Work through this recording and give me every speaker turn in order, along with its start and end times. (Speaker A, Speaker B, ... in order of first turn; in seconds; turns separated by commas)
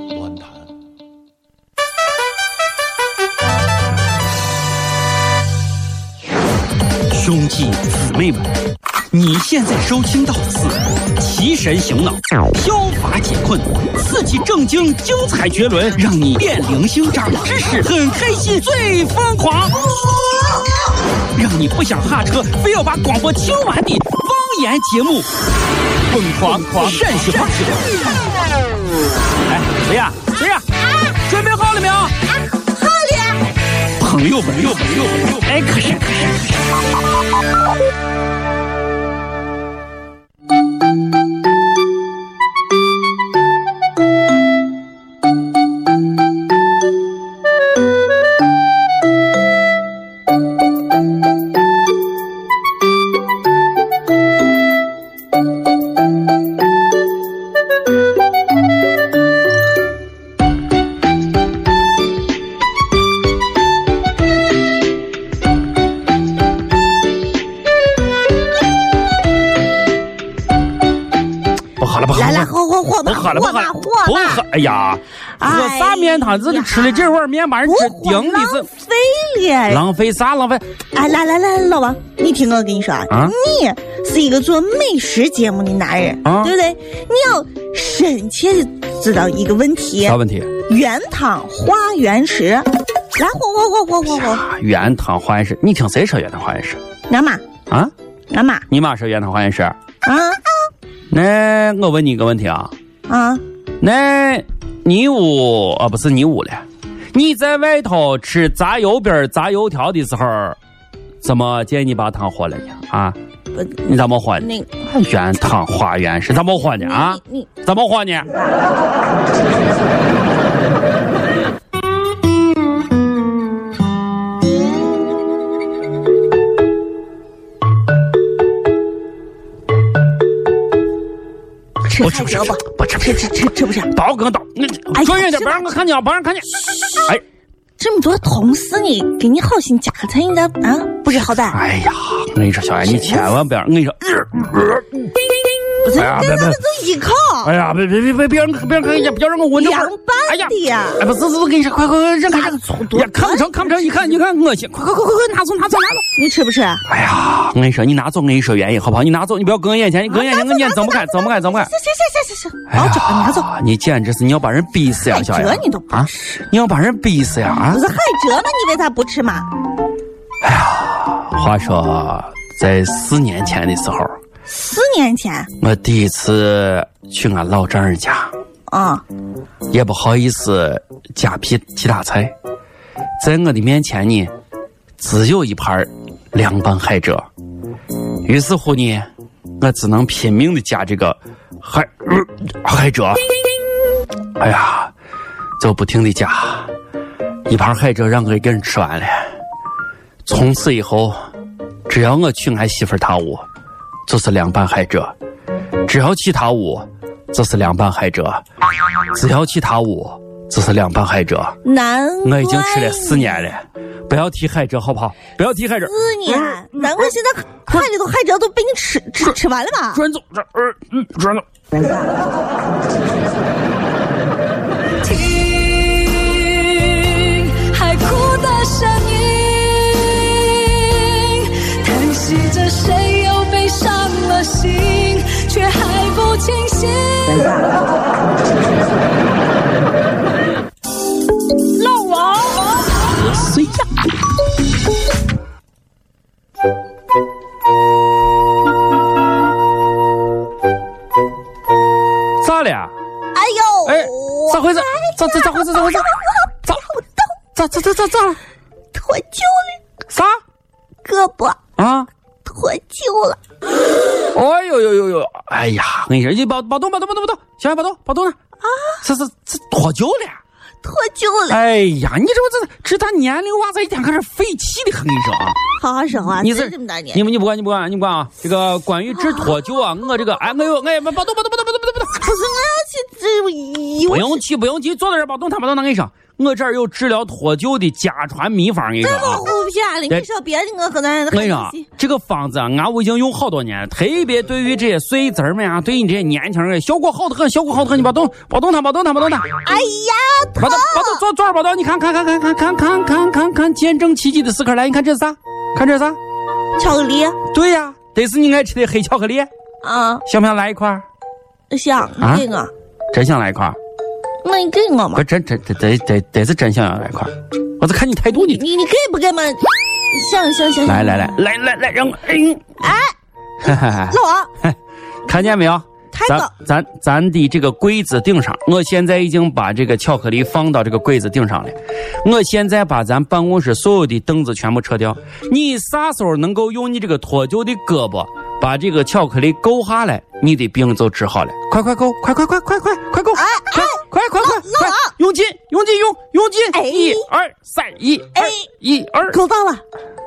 Speaker A: 7.1-8.5, Speaker A: 9.1-19.9, Speaker A: 21.3-25.3, Speaker A: 26.1-27.8, Speaker A: 29.4-32.1, Speaker B: 32.5-33.4, Speaker A: 34.0-36.5, Speaker A: 71.8-72.5, Speaker B: 72.1-74.4, Speaker A: 73.0-78.7, Speaker B: 75.4-79.8, Speaker A: 79.7-80.7, Speaker B: 80.9-94.4, Speaker A: 83.1-83.3, Speaker A: 86.2-86.5, Speaker A: 90.0-90.5, Speaker A: 94.1-96.8, Speaker B: 97.1-97.4, Speaker B: 98.3-98.6, Speaker A: 98.7-99.8, Speaker B: 100.0-100.4, Speaker A: 101.1-102.7, Speaker B: 103.1-103.4, Speaker A: 103.8-110.6, Speaker A: 111.2-113.2, Speaker A: 113.8-118.3, Speaker B: 114.4-114.7, Speaker B: 116.4-117.5, Speaker B: 131.9-133.9, Speaker A: 131.9-133.3, Speaker A: 133.9-137.2, Speaker B: 134.9-135.7, Speaker B: 136.6-137.1, Speaker B: 137.8-141.6, Speaker A: 141.2-145.1, Speaker B: 142.8-143.4, Speaker B: 145.8-147.5, Speaker A: 145.9-146.6, Speaker A: 147.4-156.1, Speaker B: 149.6-151.0, Speaker B: 152.3-154.2, Speaker B: 156.2-156.8, Speaker A: 156.9-161.7, Speaker B: 160.1-163.5, Speaker A: 162.7-167.8, Speaker B: 165.0-166.1, Speaker B: 167.7-169.5, Speaker A: 170.4-174.1, Speaker B: 174.5-175.5, Speaker A: 175.6-178.3, Speaker B: 178.7-179.0, Speaker A: 179.7-182.3, Speaker A: 183.2-184.3, Speaker A: 185.0-187.2, Speaker A: 188.2-189.1, Speaker A: 189.6-193.3, Speaker A: 194.4-194.9, Speaker A: 195.6-196.7, Speaker A: 197.4-199.2, Speaker A: 200.2-201.2, Speaker A: 201.9-203.4, Speaker A: 204.1-205.1, Speaker A: 205.9-208.4, Speaker A: 209.1-211.6, Speaker B: 211.6-213.5, Speaker A: 212.2-217.1, Speaker B: 215.8-220.0, Speaker A: 219.9-221.4, Speaker C: 225.0-237.6, Speaker A: 241.9-242.4, Speaker A: 243.3-243.8, Speaker A: 252.4-252.9, Speaker B: 253.3-257.2, Speaker A: 253.8-256.1, Speaker A: 257.5-258.4, Speaker B: 258.9-259.8, Speaker A: 260.1-260.4, Speaker B: 261.0-261.6, Speaker A: 261.8-262.1, Speaker B: 262.4-263.4, Speaker A: 264.3-268.4, Speaker B: 268.6-269.0, Speaker A: 269.0-270.4, Speaker B: 270.8-271.6, Speaker A: 271.5-275.6, Speaker B: 275.8-277.2, Speaker A: 276.4-282.2, Speaker B: 279.2-279.6, Speaker B: 282.1-284.4, Speaker A: 284.1-289.5, Speaker B: 289.0-291.9, Speaker A: 291.3-299.5, Speaker B: 299.6-301.2, Speaker A: 300.6-306.2, Speaker B: 306.8-307.4, Speaker A: 307.5-309.5, Speaker B: 309.8-310.2, Speaker A: 310.2-311.0, Speaker B: 311.7-312.7, Speaker A: 313.1-313.8, Speaker B: 314.4-315.2, Speaker A: 315.1-318.6, Speaker B: 318.3-321.3, Speaker A: 320.9-322.8, Speaker B: 322.8-323.1, Speaker A: 323.6-349.4, Speaker B: 324.1-324.5, Speaker B: 326.1-326.5, Speaker B: 343.3-345.1, Speaker B: 346.7-347.2, Speaker B: 348.4-348.6, Speaker B: 349.3-349.8